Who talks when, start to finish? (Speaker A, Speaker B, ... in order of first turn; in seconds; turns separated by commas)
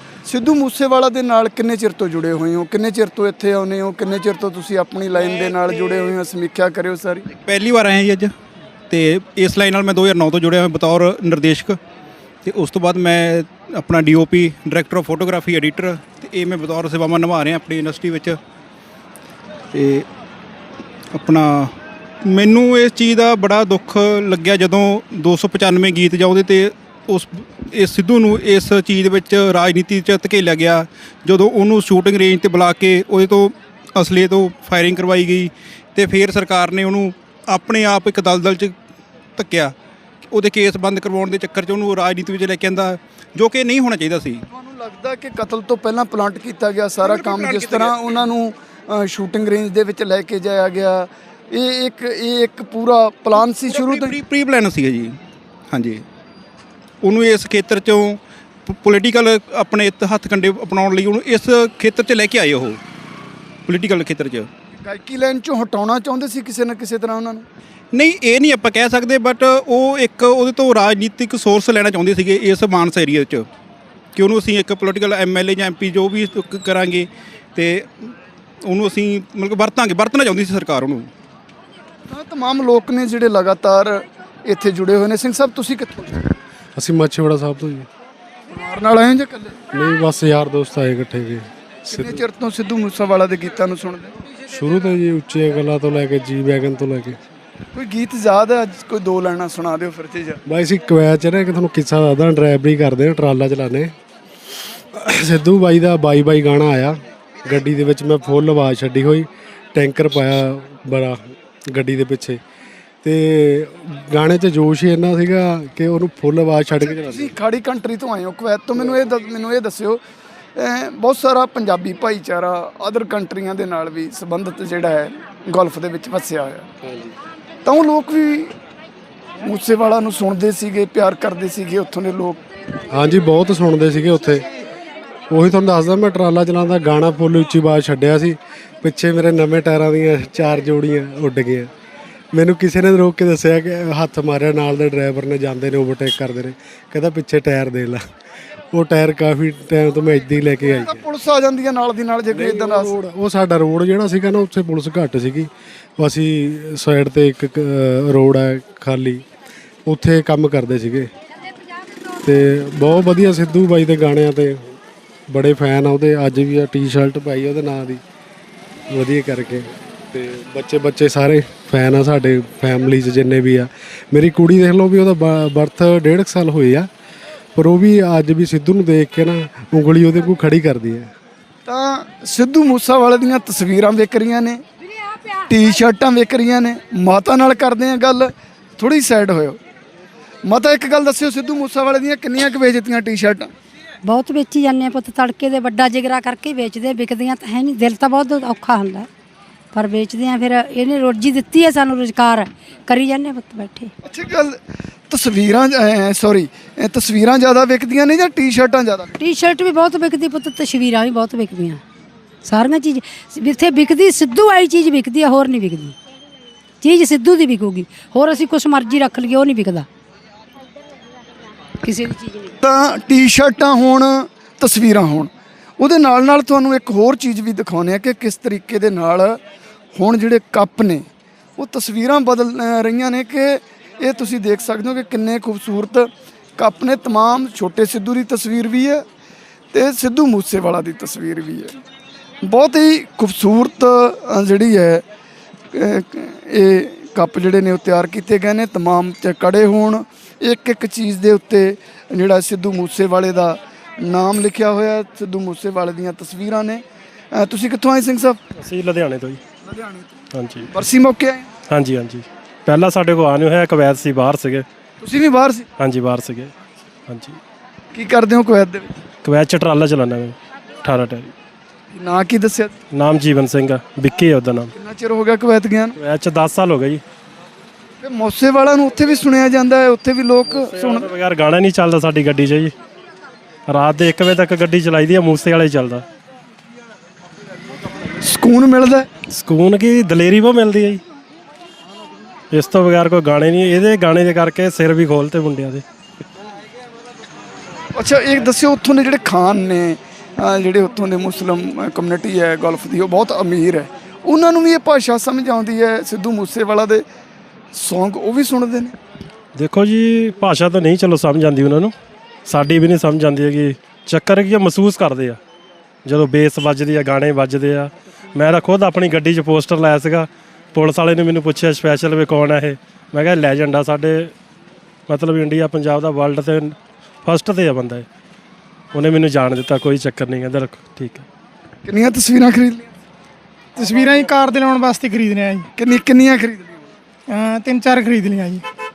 Speaker A: 0.2-7.3, Speaker B: 5.5-5.8, Speaker B: 7.4-8.3, Speaker B: 8.9-11.8, Speaker B: 12.4-18.4, Speaker B: 19.7-20.1, Speaker B: 21.1-38.7, Speaker B: 39.4-39.7, Speaker B: 40.3-44.4, Speaker A: 44.5-54.1, Speaker B: 47.0-48.2, Speaker B: 53.7-55.2, Speaker B: 55.7-56.0, Speaker B: 57.0-62.8, Speaker B: 63.7-64.5, Speaker A: 64.8-67.4, Speaker B: 67.9-73.5, Speaker B: 74.1-78.1, Speaker B: 78.6-81.1, Speaker A: 82.1-86.3, Speaker C: 86.8-87.9, Speaker A: 88.5-89.6, Speaker C: 89.7-92.2, Speaker A: 91.9-94.1, Speaker C: 94.5-97.2, Speaker A: 97.7-100.4, Speaker C: 100.5-103.9, Speaker C: 104.9-112.4, Speaker C: 113.0-117.3, Speaker A: 116.8-120.0, Speaker A: 120.5-126.7, Speaker C: 126.8-127.1, Speaker A: 127.6-128.5, Speaker A: 129.4-132.4, Speaker C: 132.9-134.4, Speaker C: 135.3-141.7, Speaker C: 142.3-148.0, Speaker C: 148.7-151.0, Speaker A: 150.7-152.9, Speaker C: 152.3-159.2, Speaker C: 159.8-161.1, Speaker C: 162.2-164.7, Speaker C: 165.3-168.0, Speaker C: 168.9-176.9, Speaker C: 177.5-181.1, Speaker A: 181.7-184.6, Speaker A: 185.4-189.6, Speaker A: 190.4-193.5, Speaker D: 194.1-199.1, Speaker D: 199.7-203.9, Speaker A: 204.0-204.6, Speaker A: 205.1-209.2, Speaker D: 209.2-211.8, Speaker D: 212.4-215.9, Speaker D: 216.8-219.9, Speaker D: 221.8-222.5, Speaker A: 222.6-229.4, Speaker A: 229.9-231.0, Speaker A: 231.6-239.0, Speaker A: 239.7-241.7, Speaker A: 242.4-245.0, Speaker A: 245.7-258.4, Speaker E: 258.6-259.4, Speaker A: 259.6-260.1, Speaker E: 260.3-260.7, Speaker A: 260.7-261.5, Speaker E: 261.7-264.6, Speaker A: 265.0-265.7, Speaker E: 265.8-266.5, Speaker E: 267.1-267.4, Speaker A: 267.9-268.9, Speaker E: 269.2-271.3, Speaker A: 271.9-272.8, Speaker E: 272.9-274.7, Speaker A: 274.7-275.9, Speaker E: 275.9-277.0, Speaker A: 278.0-281.1, Speaker E: 280.5-282.7, Speaker E: 283.7-286.0, Speaker A: 288.2-289.1, Speaker E: 289.3-291.0, Speaker E: 292.5-295.8, Speaker A: 297.9-307.0, Speaker A: 307.7-308.9, Speaker E: 309.5-311.9, Speaker E: 312.5-315.4, Speaker E: 316.0-324.3, Speaker E: 325.1-328.0, Speaker E: 328.9-331.2, Speaker A: 331.8-332.9, Speaker F: 333.8-335.7, Speaker A: 335.8-336.9, Speaker F: 337.3-338.6